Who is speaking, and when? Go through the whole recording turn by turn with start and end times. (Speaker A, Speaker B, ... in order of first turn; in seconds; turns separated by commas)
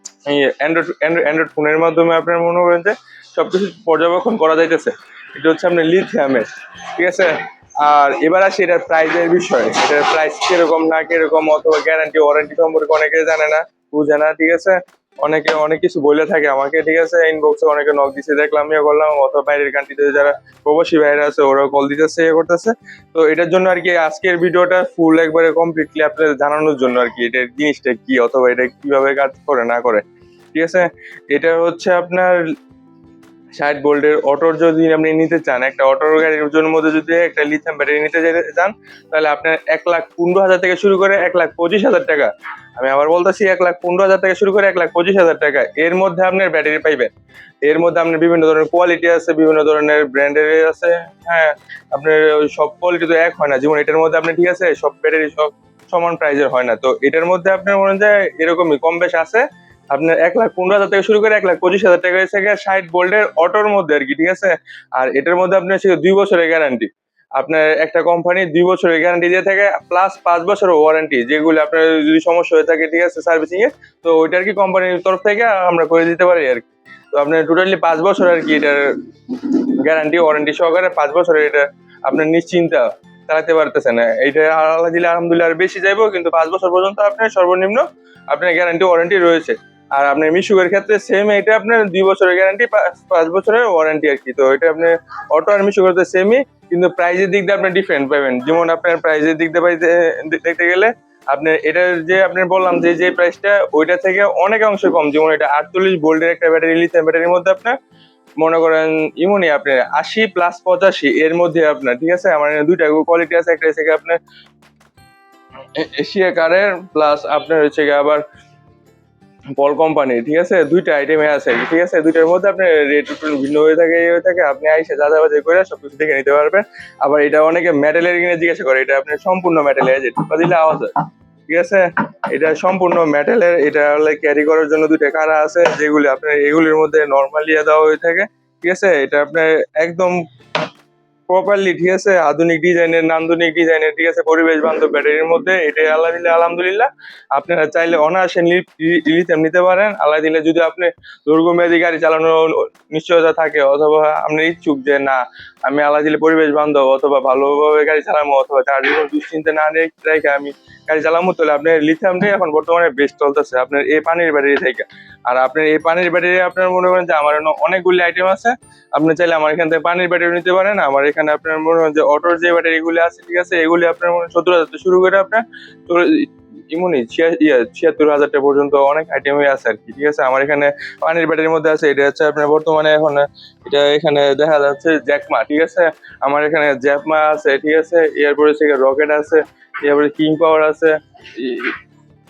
Speaker A: 0.3-32.4, Speaker A: 33.5-47.1, Speaker A: 47.6-107.8, Speaker A: 108.4-114.2, Speaker A: 115.8-118.2, Speaker A: 119.6-130.9, Speaker A: 131.5-140.2, Speaker A: 141.3-191.8